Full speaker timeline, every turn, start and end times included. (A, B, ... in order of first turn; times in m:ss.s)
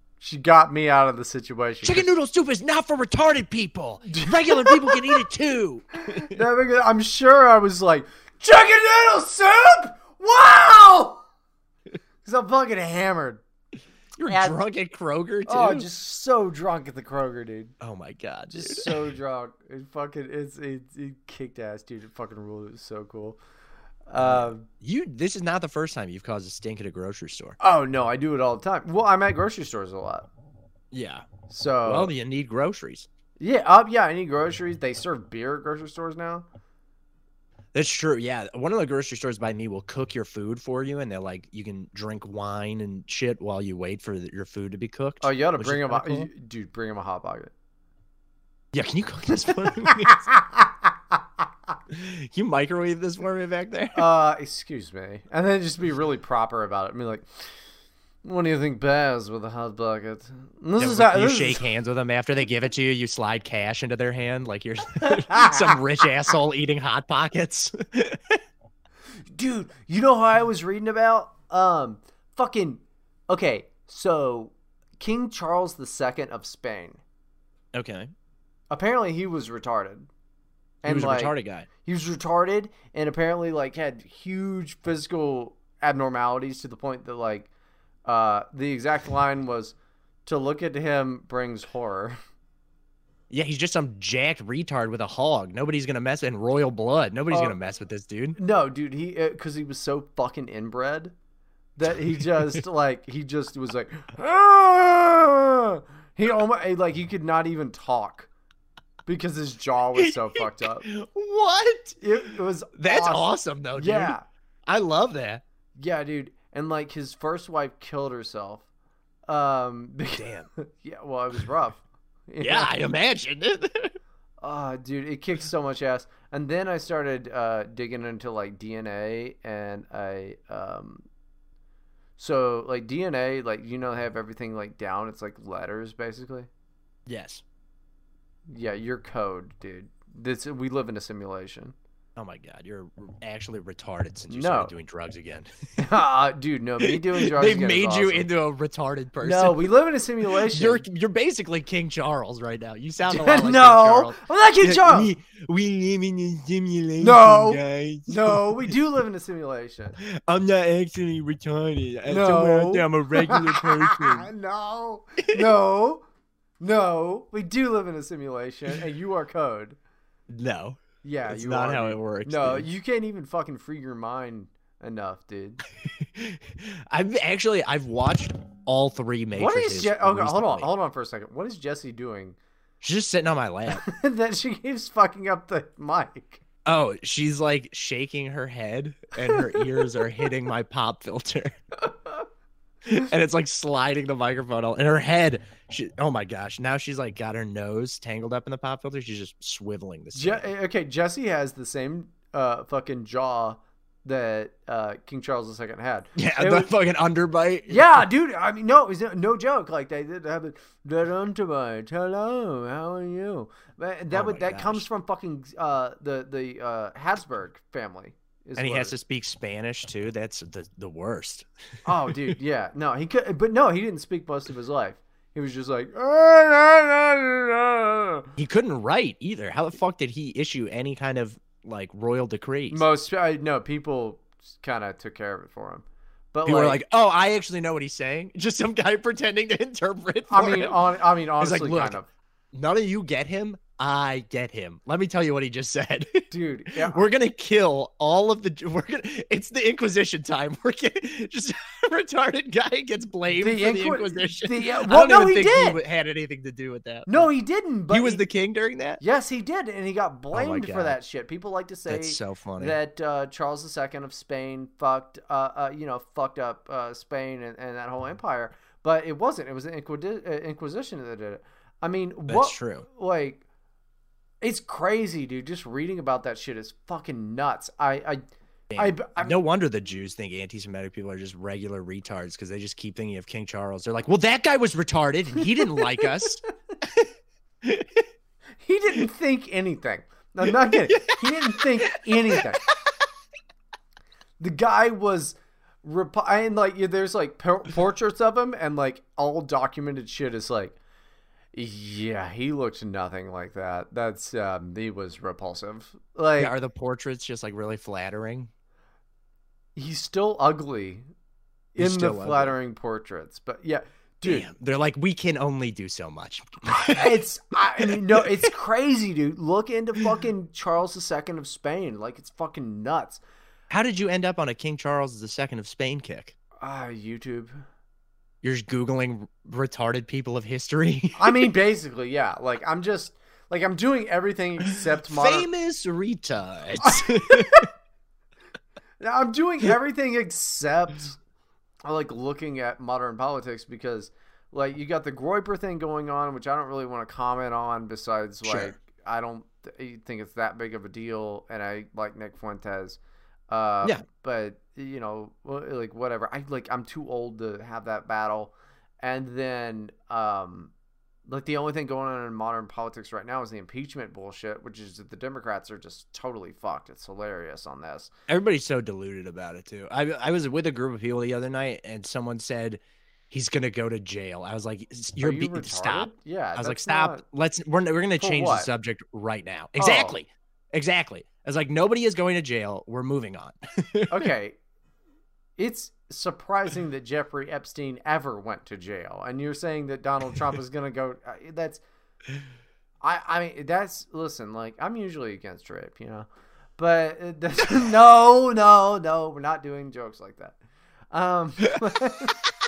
0:00.2-0:02.1 A
0:01.8-0:06.4 B
0:04.1-0:05.0 A
0:06.1-0:11.2 A
0:12.2-0:13.4 A
0:14.2-0:15.9 B
0:14.3-0:14.6 A
0:15.5-0:17.8 A
0:17.8-0:19.1 B
0:18.5-0:23.4 A
0:24.1-0:24.7 A
0:24.2-0:27.6 B
0:27.6-0:30.3 A
0:30.9-0:31.3 B
0:31.5-0:32.1 A
0:31.8-0:33.1 B
0:33.4-0:36.5 A
0:37.7-0:46.3 B
0:45.2-0:47.5 A
0:48.7-0:50.2 B
0:49.9-0:50.7 A
0:51.9-0:54.0 B
0:54.0-0:57.3 A
0:58.2-1:01.6 A
1:00.8-1:08.4 B
1:05.3-1:05.6 A
1:09.3-1:17.0 A
1:17.7-1:18.1 B
1:18.7-1:20.1 A
1:20.8-1:27.5 A
1:20.8-1:21.7 B
1:28.1-1:29.8 A
1:30.3-1:32.2 A
1:33.3-1:38.4 B
1:37.3-1:37.6 A
1:38.4-1:41.1 A
1:41.8-1:48.3 A
1:49.1-1:50.9 A
1:50.0-1:52.0 B
1:52.0-1:54.2 A
1:52.8-1:55.4 B
1:55.8-1:58.6 A
1:59.3-2:02.8 A
2:00.2-2:00.5 B
2:02.4-2:04.0 B
2:04.4-2:11.0 A
2:12.2-2:16.5 A
2:17.1-2:17.4 B
2:18.5-2:21.8 A
2:22.2-2:25.5 B
2:24.3-2:24.7 A
2:25.8-2:28.3 A
2:26.8-2:29.7 B
2:29.2-2:30.8 A
2:30.3-2:38.8 B
2:33.1-2:35.1 A
2:37.0-2:40.0 A
2:40.0-2:44.3 B
2:42.1-2:46.0 A
2:45.2-2:45.5 B
2:46.6-2:49.8 A
2:50.3-2:52.7 B
2:51.0-2:55.6 A
2:55.8-3:00.7 B
2:59.4-3:02.4 A
3:02.8-3:03.8 B
3:03.7-3:06.4 A
3:06.7-3:11.6 B
3:09.3-3:09.8 A
3:12.9-3:20.5 B
3:20.1-3:26.7 A
3:26.2-3:28.1 B
3:27.7-3:38.9 A
3:34.1-3:34.9 B
3:38.6-3:41.5 B
3:41.9-3:48.3 A
3:42.1-3:42.4 B
3:48.4-3:52.8 B
3:52.7-3:56.8 A
3:56.5-4:02.0 B
4:00.3-4:02.1 A
4:02.5-4:17.3 B
4:06.3-4:07.0 A
4:13.4-4:15.8 A
4:17.1-4:18.2 A
4:17.9-4:19.0 B
4:19.0-4:33.4 A
4:20.3-4:21.0 B
4:21.9-4:22.8 B
4:32.3-4:32.9 B
4:34.4-4:38.2 A
4:38.7-4:47.1 B
4:38.8-4:39.4 A
4:47.6-4:48.0 B
4:48.6-4:52.6 A
4:50.5-4:52.8 B
4:54.4-5:00.8 A
5:01.5-5:06.5 A
5:06.4-5:08.5 B
5:09.8-5:11.0 A
5:11.8-5:14.5 A
5:11.8-5:12.6 B
5:14.2-5:17.2 B
5:16.7-5:23.2 A
5:17.8-5:18.5 B
5:23.7-5:26.4 B
5:26.6-5:27.5 A
5:28.4-5:31.5 B
5:31.2-5:35.5 A
5:35.1-5:37.7 B
5:36.8-5:37.7 A
5:39.0-5:41.2 A
5:41.8-5:53.0 A
5:48.4-5:48.8 B
5:53.5-6:00.7 A
6:01.3-6:08.1 A
6:08.3-6:24.3 B
6:15.2-6:17.2 A
6:18.2-6:18.7 A
6:19.8-6:20.2 A
6:24.1-6:24.6 A
6:25.6-6:31.8 A
6:33.0-6:36.3 A
6:36.8-6:40.6 A
6:41.1-6:42.4 A